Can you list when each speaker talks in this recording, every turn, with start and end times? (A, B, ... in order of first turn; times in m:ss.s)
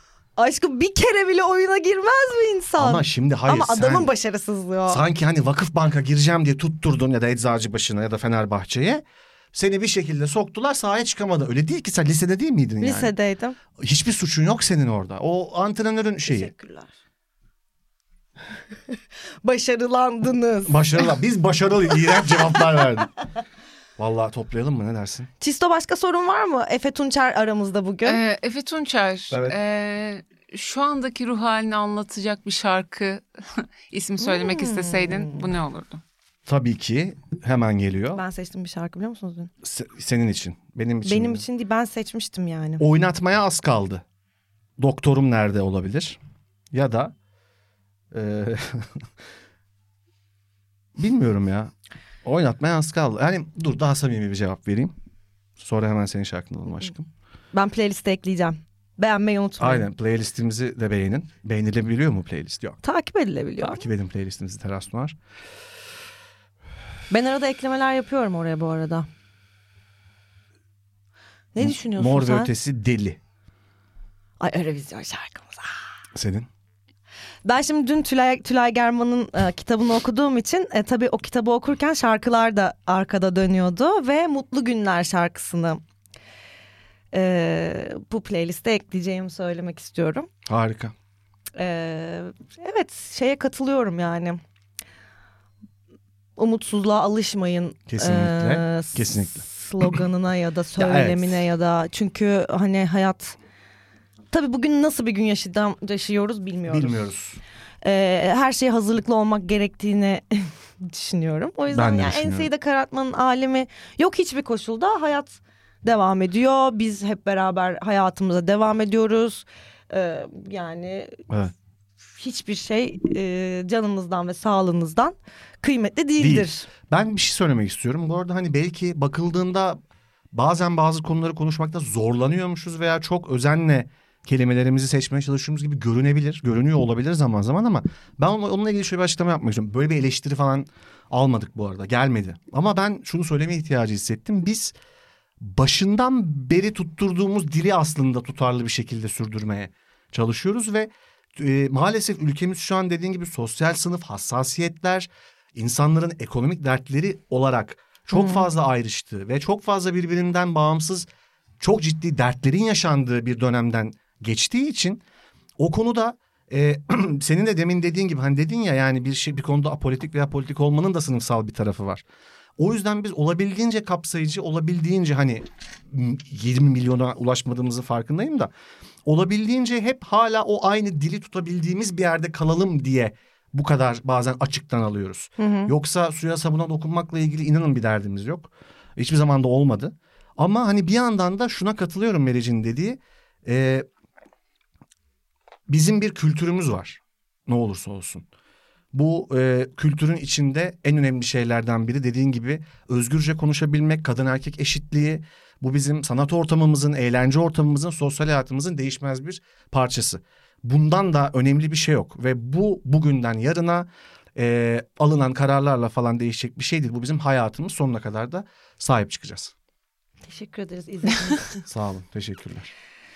0:00.4-0:05.0 A
0:02.8-0:04.1 B
0:04.9-0:13.1 B
0:12.8-0:13.6 A
0:13.8-0:16.5 B
0:16.3-0:16.9 A
0:19.4-0:21.2 A
0:20.6-0:23.1 B
0:22.2-0:22.6 A
0:24.0-0:25.3 B
0:25.4-0:28.2 A
0:28.0-0:36.0 C
0:29.3-0:29.6 B
0:34.2-0:35.5 A
0:36.5-0:38.2 B
0:38.1-0:39.5 A
0:39.6-0:41.4 B
0:41.0-0:42.8 A
0:42.8-0:44.0 B
0:44.8-0:46.2 B
0:46.7-0:47.1 B
0:48.1-0:49.1 B
0:51.0-0:51.7 B
0:52.2-0:55.0 B
0:55.6-0:57.1 B
0:57.5-0:59.9 A
0:59.6-1:02.8 B
1:02.8-1:03.8 A
1:03.6-1:05.2 B
1:07.1-1:09.1 A
1:11.5-1:12.5 A
1:11.6-1:13.2 B
1:14.4-1:15.8 A
1:16.2-1:16.5 B
1:17.4-1:25.8 A
1:27.1-1:30.3 A
1:30.5-1:31.0 B
1:31.6-1:34.4 A
1:36.4-1:43.4 A
1:37.9-1:39.4 B
1:40.8-1:41.4 B
1:44.3-1:47.0 A
1:46.7-1:47.4 B
1:47.8-2:01.2 A
1:51.7-1:52.5 B
2:02.2-2:06.7 A
2:06.2-2:09.8 B
2:10.3-2:24.7 B
2:25.4-2:41.1 B
2:38.1-2:38.5 A
2:41.6-2:45.0 B
2:45.6-2:52.0 B
2:52.6-2:58.5 B
2:59.0-3:13.9 B
3:05.4-3:05.7 A
3:15.7-3:18.3 B
3:18.9-3:39.5 B
3:40.3-3:41.6 A
3:41.6-3:42.7 B